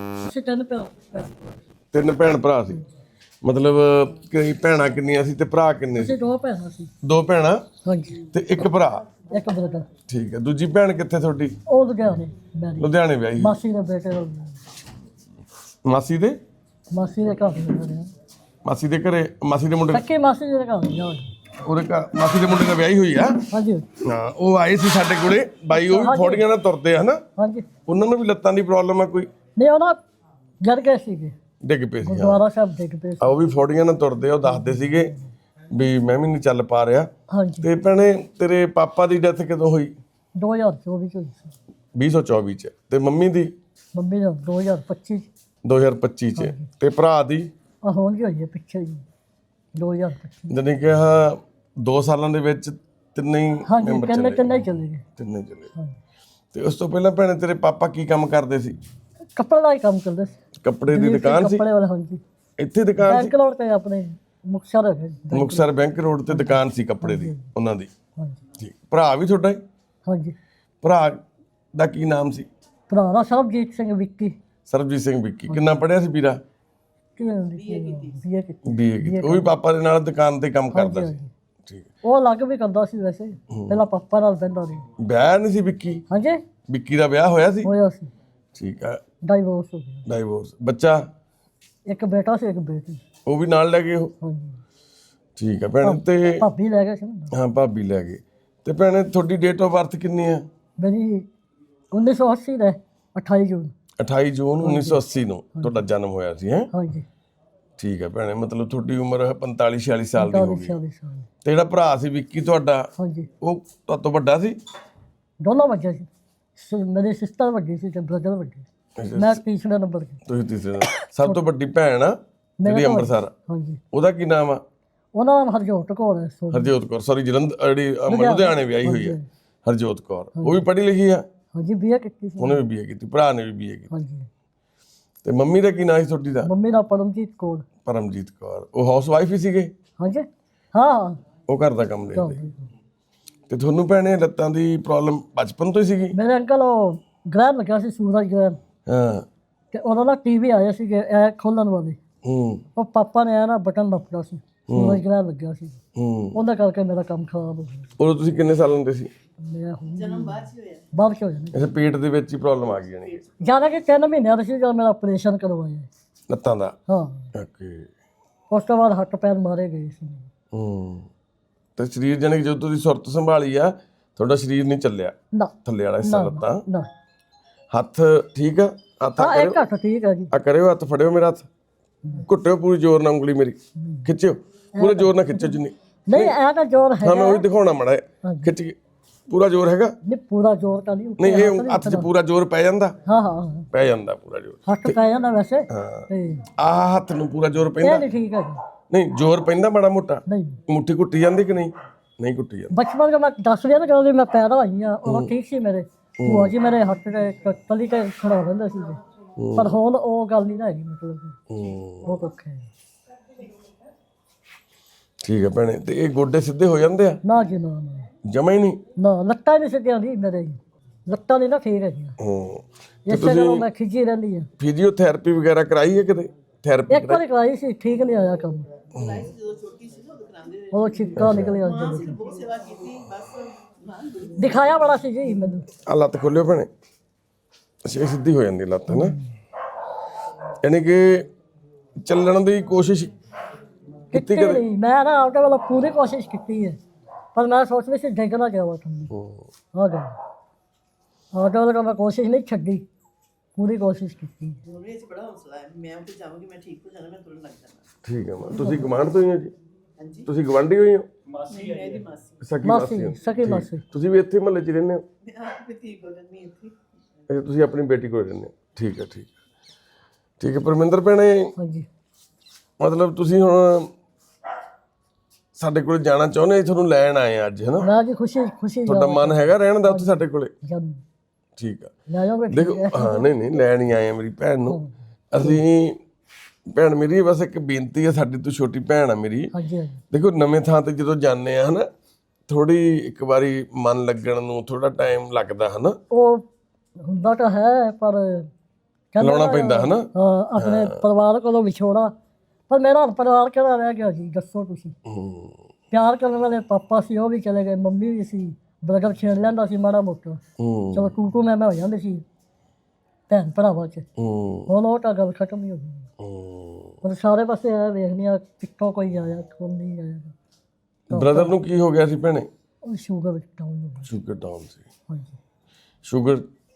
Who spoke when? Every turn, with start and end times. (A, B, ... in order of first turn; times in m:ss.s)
0:00.2-0:01.3 A
0:01.9-0:02.8 B
0:03.4-0:06.1 B
0:05.9-0:06.9 A
0:07.0-0:07.6 B
0:07.8-0:08.2 A
0:08.3-0:09.0 B
0:09.3-0:09.9 A
0:10.1-0:11.6 B
0:11.7-0:14.6 A
0:12.8-0:13.6 B
0:15.8-0:16.4 B
0:16.9-0:18.1 A
0:18.6-0:20.0 B
0:19.9-0:21.3 A
0:21.6-0:23.4 B
0:23.5-0:23.9 A
0:24.0-0:27.2 B
0:25.7-0:26.4 A
0:27.4-0:27.7 A
0:27.8-0:29.3 B
0:29.6-0:30.0 A
0:30.6-0:31.4 A
0:31.6-0:32.4 B
0:32.0-0:33.5 A
0:33.2-0:35.1 B
0:34.4-0:35.3 A
0:35.7-0:37.1 B
0:37.3-0:37.7 A
0:37.6-0:40.0 B
0:40.4-0:41.5 A
0:42.0-0:43.5 B
0:43.9-0:45.3 A
0:45.6-0:47.5 B
0:46.4-0:46.7 A
0:47.8-0:49.0 A
0:49.7-0:50.6 A
0:50.5-0:54.6 B
0:53.6-0:55.0 A
0:55.2-0:55.7 B
0:56.5-0:58.8 B
0:59.3-1:02.2 A
1:00.6-1:01.6 B
1:02.6-1:03.3 B
1:03.0-1:05.7 A
1:05.3-1:07.9 B
1:06.3-1:07.4 A
1:08.6-1:09.6 B
1:10.0-1:10.4 A
1:10.8-1:11.2 B
1:11.8-1:12.5 B
1:12.9-1:14.4 A
1:14.7-1:16.4 B
1:17.2-1:19.5 A
1:17.5-1:18.2 C
1:18.6-1:21.8 B
1:20.7-1:21.3 A
1:22.0-1:24.9 A
1:23.5-1:23.8 B
1:25.0-1:26.0 B
1:26.1-1:26.4 A
1:26.7-1:27.7 B
1:27.6-1:28.1 A
1:28.5-1:29.0 B
1:29.2-1:30.0 A
1:30.1-1:31.1 B
1:31.8-1:33.0 A
1:33.2-1:34.1 B
1:34.2-1:34.6 A
1:35.4-1:36.4 B
1:35.8-1:37.3 A
1:37.3-1:40.5 B
1:40.8-1:41.3 A
1:41.9-1:43.7 A
1:44.0-1:46.7 B
1:44.6-1:45.0 A
1:45.5-1:45.8 A
1:46.7-1:47.0 A
1:47.8-1:50.7 B
1:50.2-1:51.3 A
1:51.4-1:54.6 B
1:53.0-1:53.3 A
1:55.4-2:00.2 A
1:59.0-1:59.4 B
2:00.2-2:03.3 B
2:02.6-2:03.8 A
2:03.9-2:04.6 B
2:05.1-2:06.7 A
2:06.5-2:11.2 B
2:08.1-2:09.3 A
2:10.4-2:10.6 A
2:11.5-2:12.6 A
2:12.4-2:13.9 B
2:13.9-2:14.3 A
2:15.2-2:16.5 B
2:16.4-2:17.6 A
2:17.8-2:19.7 B
2:20.0-2:21.2 A
2:21.5-2:22.4 B
2:22.1-2:22.6 A
2:23.5-2:26.2 B
2:26.1-2:28.6 A
2:28.9-2:29.3 B
2:29.7-2:32.0 A
2:32.2-2:32.6 B
2:32.7-2:35.8 A
2:34.7-2:35.0 B
2:36.0-2:36.4 B
2:36.3-2:37.9 A
2:38.0-2:39.1 B
2:39.4-2:41.7 A
2:39.9-2:40.9 C
2:41.5-2:43.2 B
2:42.5-2:43.6 C
2:43.4-2:45.9 A
2:46.3-2:46.8 B
2:46.9-2:47.3 A
2:47.3-2:47.9 B
2:48.5-2:50.3 A
2:50.5-2:51.1 B
2:51.8-2:56.6 B
2:55.3-2:56.9 A
2:57.7-2:59.6 B
2:59.2-3:00.3 A
3:00.3-3:01.5 B
3:02.2-3:06.4 B
3:03.8-3:04.1 A
3:04.8-3:07.4 A
3:07.0-3:08.8 B
3:08.2-3:08.5 A
3:09.3-3:10.0 B
3:10.0-3:12.1 A
3:11.2-3:12.9 B
3:13.0-3:13.7 A
3:13.7-3:15.0 B
3:14.6-3:16.4 A
3:15.7-3:18.0 B
3:17.8-3:18.6 A
3:18.9-3:22.7 B
3:20.3-3:20.6 A
3:22.7-3:29.0 A
3:25.0-3:25.3 B
3:26.2-3:26.5 B
3:29.4-3:29.7 B
3:29.6-3:31.4 A
3:31.5-3:32.1 B
3:32.0-3:32.7 A
3:35.2-3:37.2 B
3:37.2-3:38.1 A
3:38.2-3:38.8 B
3:39.0-3:42.2 A
3:42.2-3:43.6 B
3:43.0-3:44.5 A
3:44.6-3:47.2 B
3:46.9-3:48.7 A
3:48.9-3:54.9 C
3:48.9-3:49.2 B
3:50.7-3:52.1 A
3:51.1-3:51.6 B
3:54.4-3:55.7 A
3:55.8-3:56.7 B
3:57.8-3:59.2 B
3:58.9-3:59.3 A
4:00.6-4:01.2 B
4:02.0-4:03.1 B
4:04.1-4:06.8 A
4:04.1-4:04.6 B
4:07.3-4:09.1 A
4:09.1-4:09.5 B
4:09.7-4:10.2 A
4:11.3-4:12.8 A
4:13.6-4:14.6 A
4:14.6-4:17.8 C
4:18.0-4:19.5 B
4:18.5-4:18.9 A
4:20.0-4:20.3 C
4:20.2-4:21.1 B
4:21.4-4:22.4 C
4:22.4-4:25.0 B
4:22.6-4:23.8 A
4:25.2-4:26.8 C
4:27.3-4:29.3 B
4:30.4-4:31.5 B
4:31.6-4:31.9 A
4:32.8-4:33.9 B
4:35.6-4:37.9 B
4:37.8-4:41.0 A
4:38.9-4:40.5 B
4:41.6-4:41.9 B
4:42.1-4:43.3 A
4:42.5-4:44.8 B
4:44.7-4:45.6 A
4:45.3-4:46.0 B
4:46.7-4:49.5 B
4:49.5-4:50.0 A
4:50.1-4:51.9 B
4:52.5-4:56.0 B
4:56.1-4:56.4 A
4:57.0-4:58.5 A
4:59.1-5:02.1 A
4:59.2-5:01.0 B
5:02.7-5:05.0 A
5:05.0-5:05.6 B
5:05.9-5:10.4 A
5:10.6-5:11.1 B
5:10.9-5:12.2 A
5:13.3-5:14.1 A
5:14.2-5:14.7 B
5:14.7-5:16.1 A
5:16.2-5:17.0 B
5:17.0-5:20.3 A
5:21.1-5:22.5 B
5:21.1-5:21.5 A
5:22.8-5:24.1 A
5:24.0-5:24.8 B
5:25.1-5:25.4 A
5:26.0-5:26.5 B